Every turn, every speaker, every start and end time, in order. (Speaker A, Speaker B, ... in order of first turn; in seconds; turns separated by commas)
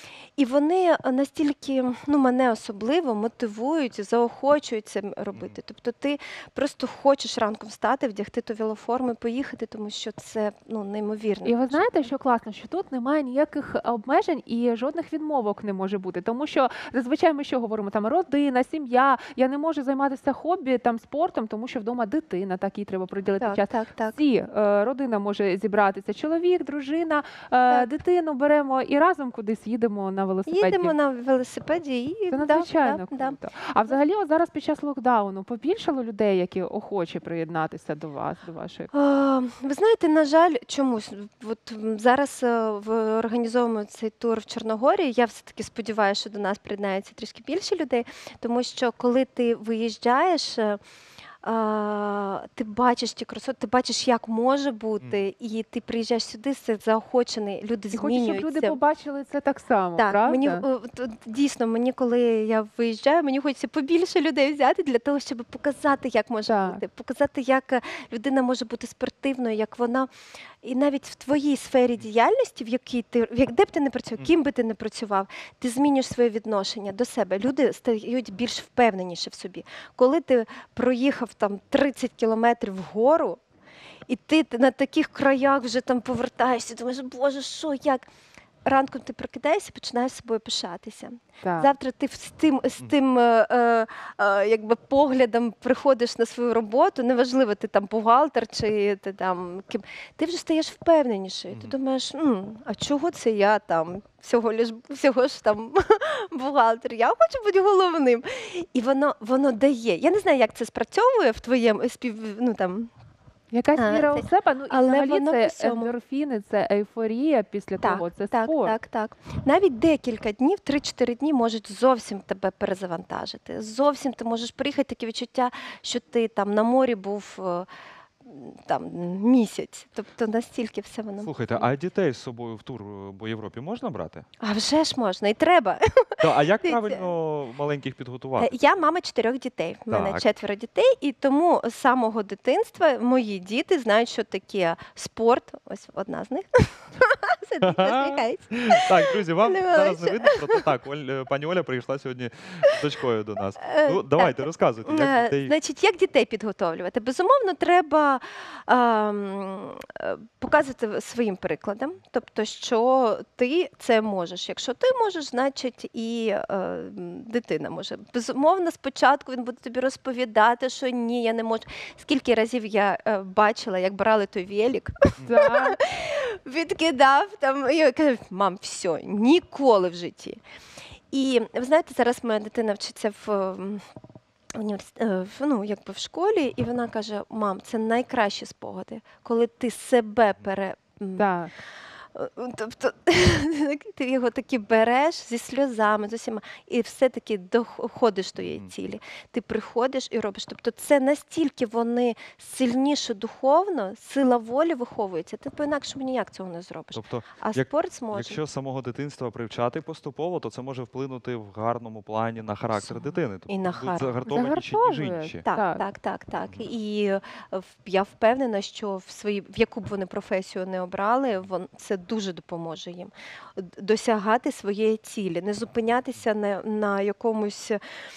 Speaker A: 0.4-12.1, Speaker B: 11.4-30.9, Speaker A: 23.4-24.2, Speaker A: 30.5-33.4, Speaker B: 32.3-38.9, Speaker A: 38.9-50.8, Speaker A: 51.4-58.8, Speaker B: 57.9-60.6, Speaker A: 60.0-70.1, Speaker B: 66.5-66.8, Speaker A: 70.6-83.4, Speaker A: 84.1-88.1, Speaker A: 88.6-112.9, Speaker B: 91.4-91.7, Speaker B: 113.5-118.8, Speaker A: 113.8-115.9, Speaker A: 117.8-127.7, Speaker A: 128.2-131.7, Speaker C: 131.2-134.2, Speaker A: 134.4-137.1, Speaker C: 136.2-138.5, Speaker A: 138.4-150.7, Speaker C: 139.9-140.2, Speaker C: 147.6-155.5, Speaker A: 153.6-180.4, Speaker B: 175.2-175.8, Speaker A: 181.1-183.8, Speaker A: 184.6-191.2, Speaker B: 191.2-191.5, Speaker A: 192.1-208.4, Speaker C: 206.9-215.4, Speaker A: 212.8-214.1, Speaker B: 214.3-215.8, Speaker A: 215.5-227.8